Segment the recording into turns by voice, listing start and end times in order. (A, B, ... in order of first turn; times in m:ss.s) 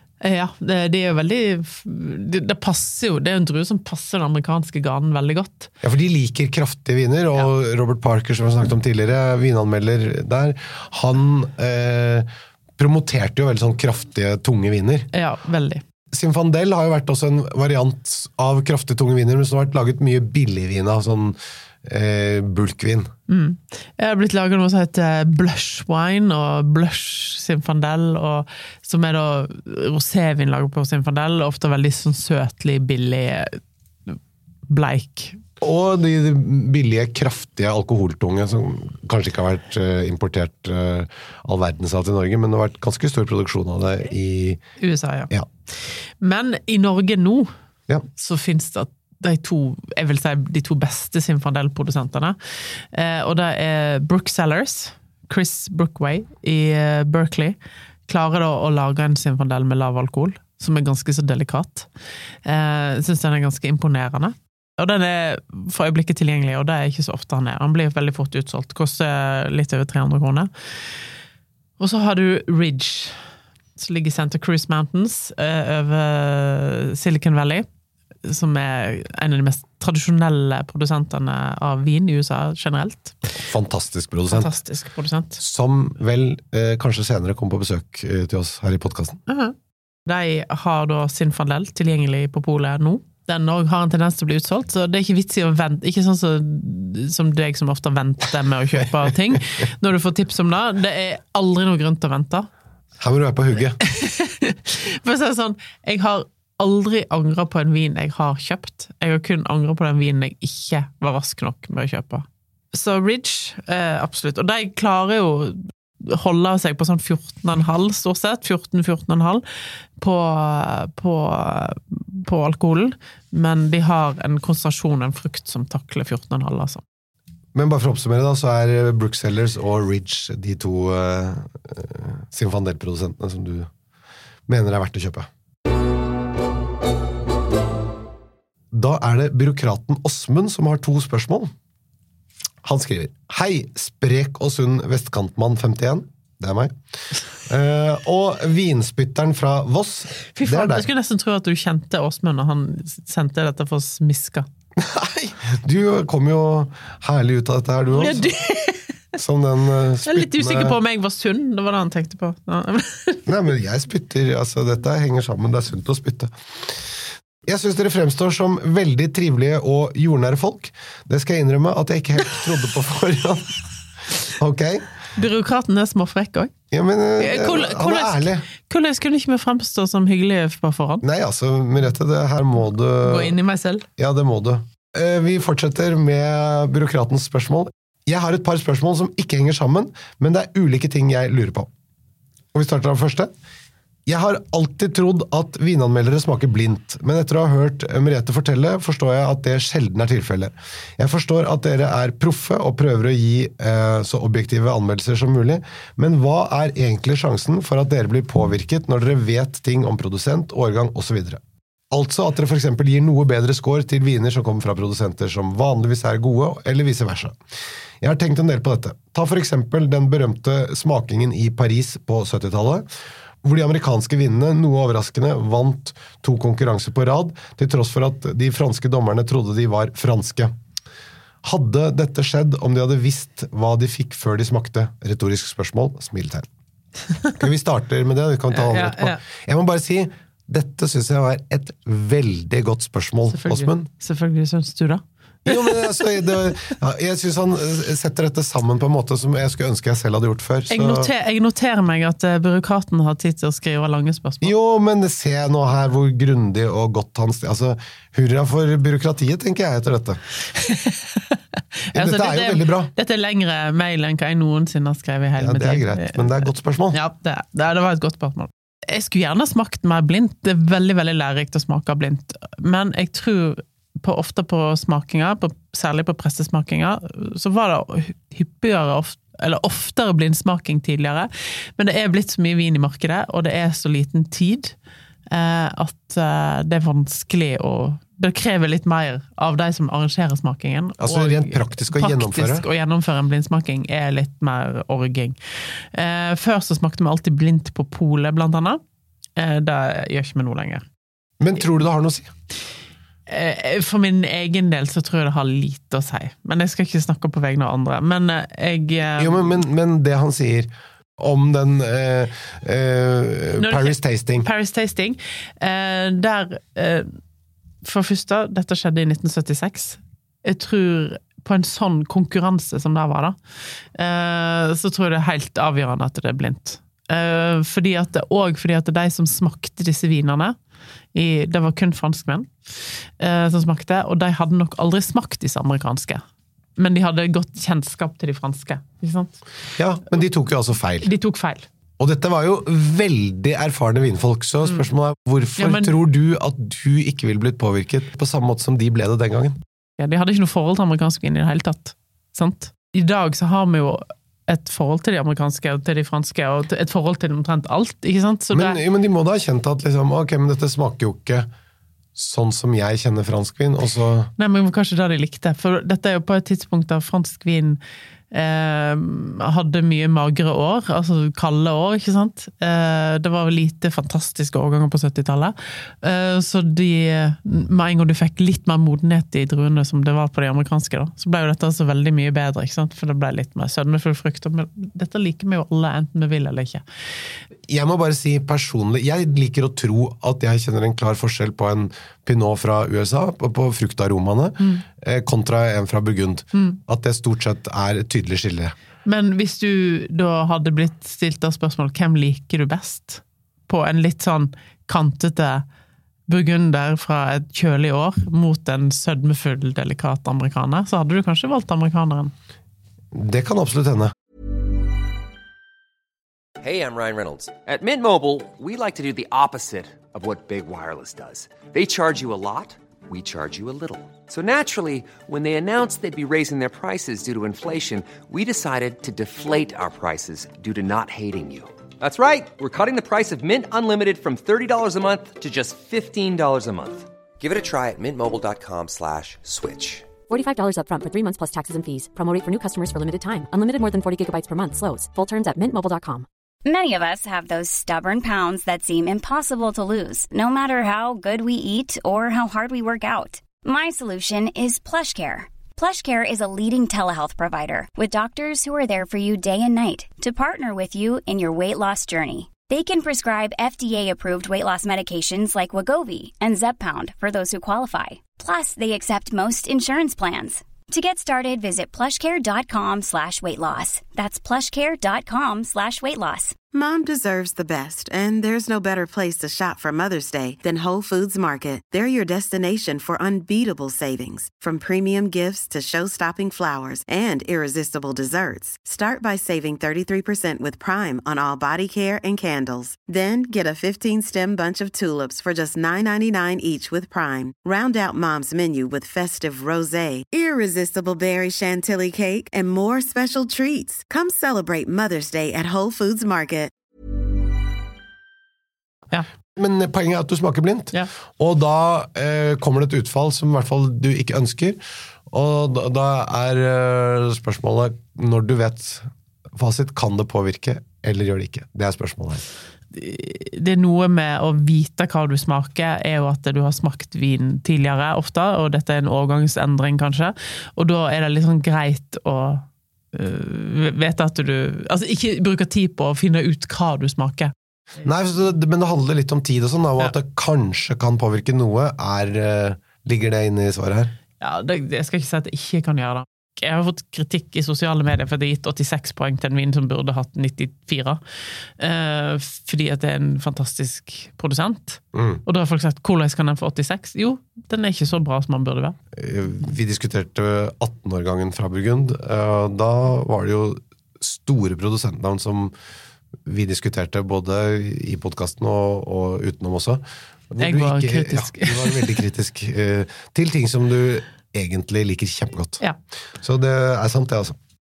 0:00.2-0:05.7 A
0:05.8-0:15.1 B
0:15.1-0:15.8 A
0:16.1-0:23.1 B
0:23.3-0:35.4 A
0:35.6-0:44.6 B
0:44.8-0:47.5 A
0:48.1-0:57.6 A
0:58.1-1:01.9 A
1:02.4-1:10.5 A
1:11.8-1:13.2 A
1:13.8-1:17.7 A
1:18.2-1:23.3 A
1:23.4-1:24.5 B
1:24.3-1:25.4 A
1:25.4-1:29.2 B
1:29.3-1:29.6 A
1:30.1-1:42.5 A
1:43.0-1:43.8 B
1:43.8-1:59.4 A
2:00.0-2:06.8 A
2:07.5-2:13.7 B
2:14.5-2:15.3 B
2:18.7-2:21.5 B
2:22.6-2:26.7 B
2:27.4-2:30.9 B
2:30.2-2:34.5 A
2:34.8-2:38.4 B
2:37.9-2:38.9 A
2:39.2-2:40.8 B
2:40.1-2:43.2 A
2:43.3-2:46.8 B
2:47.4-2:53.6 B
2:54.3-2:54.9 B
2:55.2-2:56.5 A
2:56.7-2:58.5 B
2:57.2-3:01.0 A
3:01.0-3:03.4 B
3:03.0-3:03.8 A
3:04.0-3:11.7 B
3:12.5-3:13.3 B
3:14.1-3:37.4 B
3:38.0-3:42.9 B
3:43.4-3:50.6 B
3:51.4-3:56.5 B
3:57.4-4:03.9 B
3:58.5-3:59.2 A
4:03.3-4:06.4 A
4:05.5-4:11.1 B
4:10.7-4:14.5 A
4:14.4-4:20.2 B
4:20.5-4:21.4 A
4:21.9-4:44.7 A
4:22.0-4:22.9 B
4:25.4-4:27.0 B
4:45.3-4:58.8 A
4:51.0-4:52.7 B
4:59.4-5:00.8 A
5:01.4-5:02.3 B
5:03.3-5:09.6 A
5:09.2-5:14.5 B
5:13.6-5:17.1 A
5:17.8-5:23.4 A
5:24.0-5:30.6 A
5:31.1-5:32.5 A
5:33.2-5:36.2 A
5:36.8-5:39.4 A
5:39.8-5:41.1 B
5:41.0-5:41.7 A
5:42.0-5:49.6 B
5:45.6-5:45.9 A
5:50.0-5:58.8 A
5:58.5-6:01.5 B
6:02.2-6:04.3 B
6:04.4-6:07.8 A
6:08.3-6:26.8 A
6:27.7-6:38.8 B
6:39.0-6:45.6 A
6:46.3-6:52.3 A
6:53.1-6:54.1 B
6:56.6-7:20.1 C
7:20.3-7:26.3 D
7:26.6-7:56.5 E
7:56.7-8:26.7 F
8:29.6-8:42.4 B
8:42.9-8:57.5 A
8:58.0-9:04.1 B
9:04.4-9:11.2 A
9:11.8-9:19.0 A
9:15.1-9:15.4 B
9:19.1-9:25.7 B
9:26.4-9:35.8 B
9:30.6-9:32.2 A
9:36.4-9:37.6 B